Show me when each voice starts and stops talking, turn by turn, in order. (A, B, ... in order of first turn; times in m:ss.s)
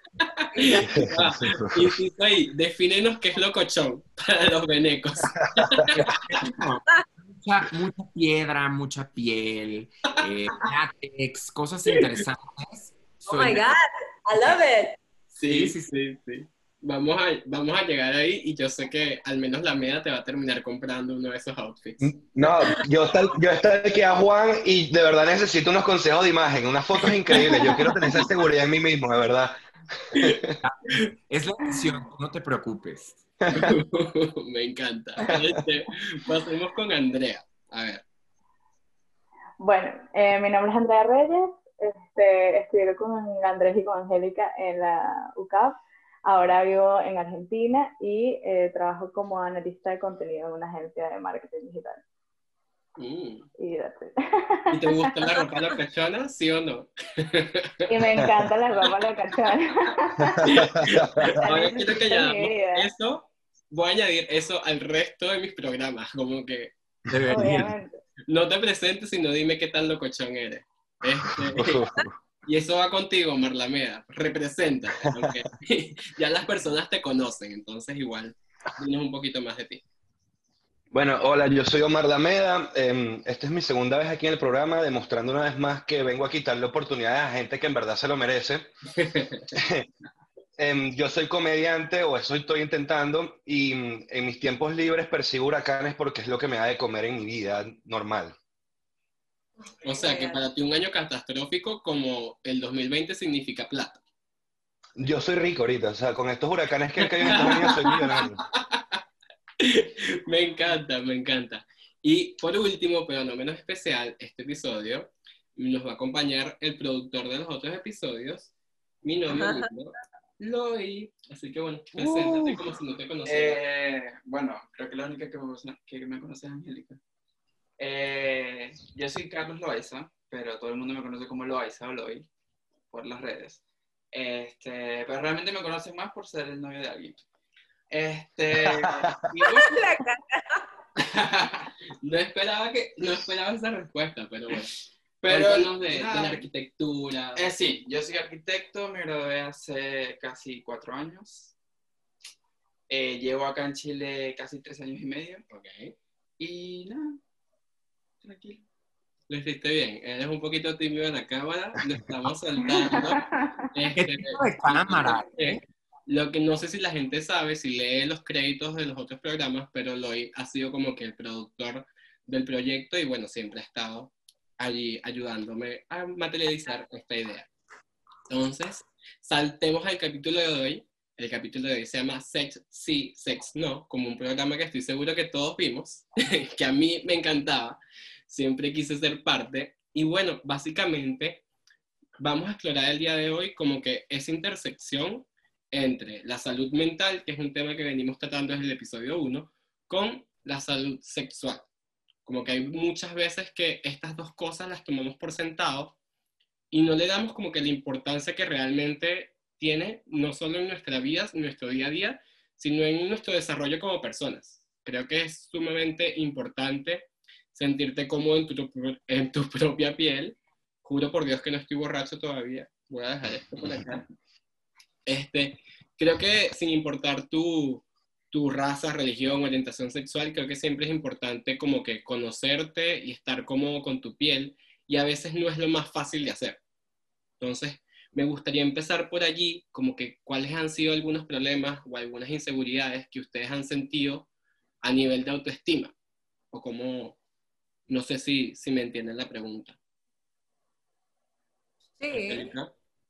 0:00.3-0:06.4 A
0:00.8-0:01.9 B
0:05.4-0:06.1 B
0:06.3-0:13.7 C
0:13.3-0:15.0 D
0:15.4-0:22.3 A
0:15.5-0:15.7 E
0:22.0-0:29.6 B
0:27.4-0:27.9 A
0:30.1-0:30.6 B
0:30.1-0:31.1 A
0:30.6-0:33.3 C
0:33.4-0:33.7 B
0:33.5-0:38.0 A
0:35.3-0:35.6 B
0:39.6-0:52.0 F
0:53.0-0:53.5 A
0:53.6-0:55.3 F
0:54.7-0:58.3 A
0:57.9-1:00.7 F
1:00.3-1:01.4 B
1:00.4-1:06.7 A
1:01.2-1:02.9 F
1:07.1-1:07.7 C
1:07.3-1:07.9 F
1:08.3-1:11.9 A
1:11.5-1:12.1 B
1:12.4-1:19.8 A
1:20.9-1:28.7 B
1:29.0-1:29.5 A
1:29.5-1:29.9 B
1:30.6-1:38.4 B
1:39.6-1:40.4 D
1:39.8-1:44.0 A
1:45.0-1:48.4 B
1:47.0-1:49.0 A
1:49.6-1:58.5 A
1:59.0-2:03.6 A
1:59.3-1:59.7 D
2:02.0-2:02.6 E
2:03.2-2:07.0 E
2:07.8-2:12.3 E
2:12.9-2:13.6 E
2:14.1-2:17.2 E
2:17.9-2:19.9 E
2:19.4-2:20.6 D
2:21.2-2:21.7 E
2:22.0-2:27.5 A
2:25.2-2:26.4 E
2:27.4-2:31.5 E
2:32.9-2:35.4 E
2:35.5-2:35.9 A
2:36.4-2:37.2 E
2:38.2-2:38.6 E
2:39.3-2:57.5 A
2:42.9-2:43.3 F
2:44.0-2:45.6 C
2:58.3-3:11.4 A
3:12.2-3:21.6 A
3:22.2-3:25.9 A
3:26.7-3:44.0 A
3:45.0-3:56.6 A
3:57.4-4:04.3 A
4:04.8-4:05.9 A
4:06.5-4:07.2 A
4:07.9-4:09.8 A
4:12.0-4:12.5 D
4:12.1-4:12.7 A